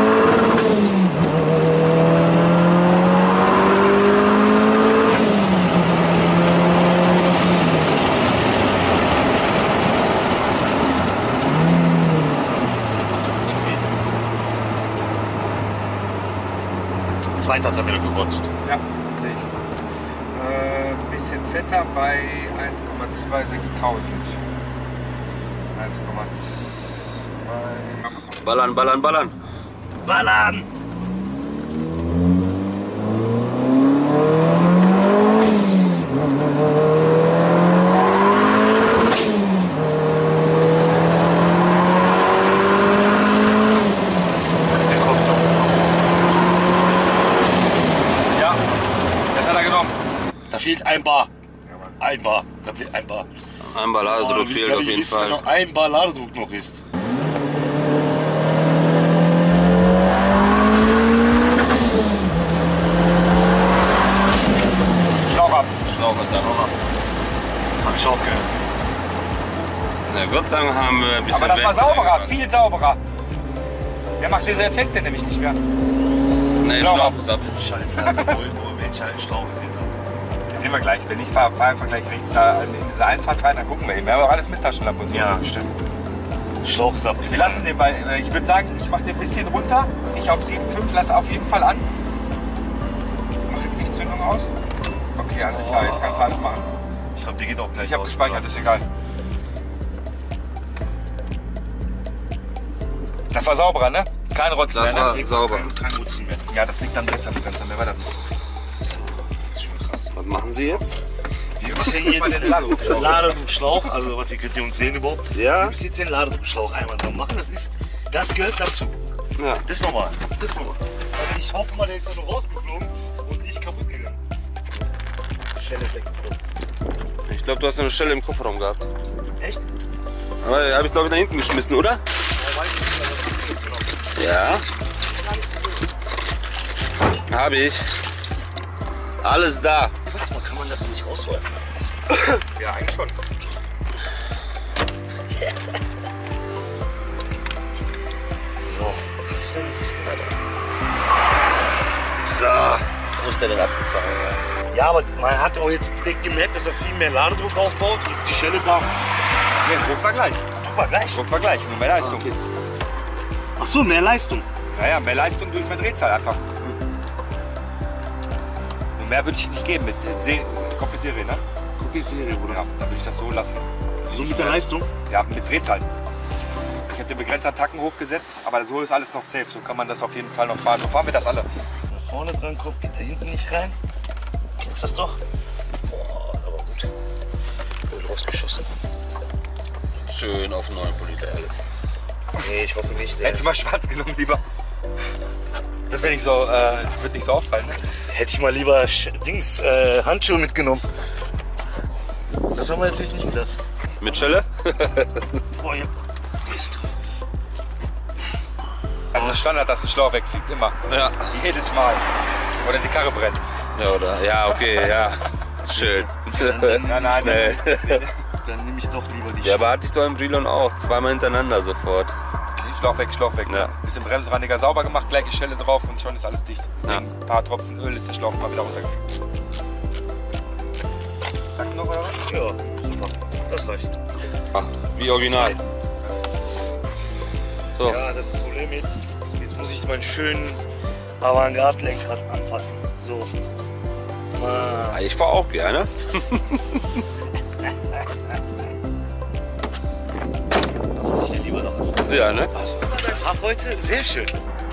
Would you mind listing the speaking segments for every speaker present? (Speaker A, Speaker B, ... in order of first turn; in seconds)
Speaker A: 12.6-13.9, 17.4-18.5, 30.0-30.7, 44.7-46.0, 50.5-51.3, 52.0-53.3, 54.1-56.8, 66.3-66.7, 67.8-68.7, 77.5-80.0, 85.1-85.8, 86.6-87.7, 95.5-96.4, 97.2-98.6, 104.9-106.5, 108.9-110.2, 111.6-119.0, 119.6-120.3, 121.1-124.2, 125.5-126.4, 129.4-129.7, 132.3-134.0, 140.1-141.5, 148.6-150.4, 152.2-152.9, 154.7-158.9, 160.6-161.3, 162.0-162.4, 163.6-164.5, 171.8-172.6, 174.1-174.9, 181.9-183.8, 184.6-185.2, 185.9-186.9, 187.9-188.7, 192.4-193.4, 198.1-200.9, 202.5-204.4, 205.5-205.9, 206.4-207.0, 209.1-209.4, 215.7-217.8, 218.4-219.8, 232.2-234.0, 235.1-235.6, 237.8-240.6, 241.2-243.3, 244.3-245.0, 250.9-254.4
Speaker B: 18.6-19.5, 20.3-24.4, 25.7-28.3, 48.3-48.6, 49.3-50.0, 65.3-65.7, 71.3-73.0, 74.2-75.6, 76.6-77.2, 78.0-78.4, 80.5-85.3, 87.2-91.9, 93.5-94.5, 95.1-96.8, 97.8-98.9, 103.3-105.2, 106.5-108.1, 111.6-113.3, 142.4-143.2, 159.6-160.4, 161.1-162.3, 164.7-166.4, 169.0-171.4, 172.5-175.9, 176.9-181.5, 193.2-194.4, 195.9-197.8, 209.1-210.8, 211.3-212.1, 212.6-213.4, 216.8-218.2, 222.7-229.0, 231.6-232.2
Speaker C: 28.4-29.4, 53.7-55.4, 65.8-66.6, 70.1-72.3, 76.6-77.6, 104.7-105.7, 110.1-110.9, 112.3-113.3, 115.3-115.8, 119.4-119.6, 120.4-120.8, 127.3-128.9, 130.4-132.0, 134.2-134.7, 137.3-137.9, 139.2-139.9, 153.2-154.4, 190.1-191.6, 204.0-205.3, 210.9-211.3, 213.8-218.0, 219.4-222.2, 223.5-223.7, 234.5-235.6, 237.8-238.0, 244.9-246.8, 252.1-252.5